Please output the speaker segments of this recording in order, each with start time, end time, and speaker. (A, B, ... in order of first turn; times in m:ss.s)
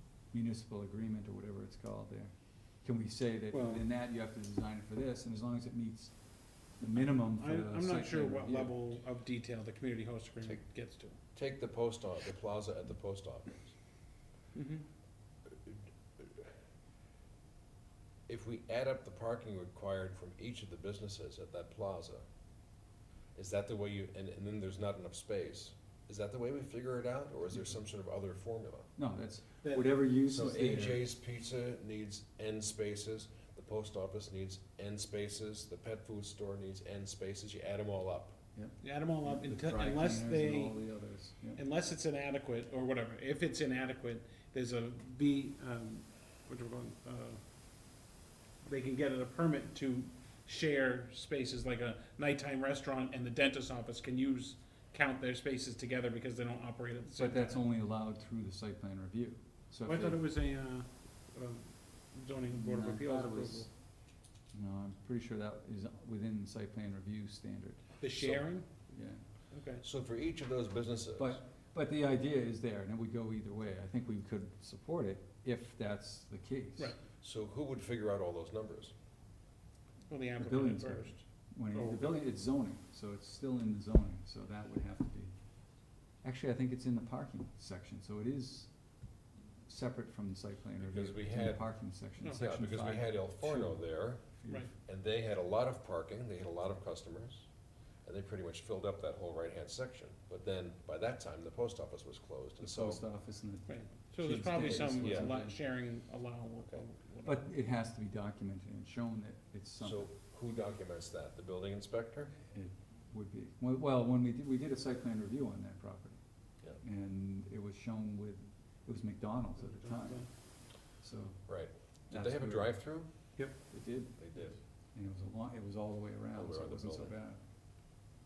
0:00.3-0:06.2 A
0:03.5-0:03.8 B
0:06.8-0:08.8 A
0:07.4-0:11.2 B
0:11.4-0:13.7 C
0:14.6-0:14.8 B
0:15.6-0:16.4 C
0:18.3-0:22.2 C
0:23.4-0:28.9 C
0:29.0-0:31.0 A
0:29.6-0:30.0 B
0:30.3-0:38.4 C
0:38.6-0:41.6 A
0:38.8-0:40.8 B
0:41.6-0:47.4 B
0:48.6-0:57.6 B
0:57.2-1:00.2 A
0:59.9-1:03.7 B
1:02.5-1:03.7 A
1:04.5-1:07.9 A
1:08.0-1:08.7 B
1:08.2-1:08.4 C
1:08.9-1:09.2 A
1:09.5-1:09.8 B
1:09.8-1:11.4 C
1:11.2-1:17.0 A
1:17.2-1:18.9 C
1:20.1-1:21.2 B
1:20.4-1:25.3 A
1:21.7-1:22.2 B
1:26.2-1:28.7 A
1:29.7-1:34.7 A
1:30.8-1:31.6 C
1:32.2-1:32.5 B
1:32.3-1:34.3 C
1:34.9-1:37.4 C
1:38.0-1:43.0 C
1:42.6-1:45.6 A
1:43.7-1:47.4 B
1:44.6-1:45.4 C
1:47.2-1:50.1 A
1:49.8-1:52.3 C
1:52.5-1:56.2 A
1:56.8-2:00.3 A
1:59.6-2:00.3 B
2:01.0-2:01.5 A
2:01.5-2:03.1 C
2:02.1-2:02.8 A
2:03.7-2:07.4 A
2:04.2-2:04.6 C
2:06.4-2:07.2 C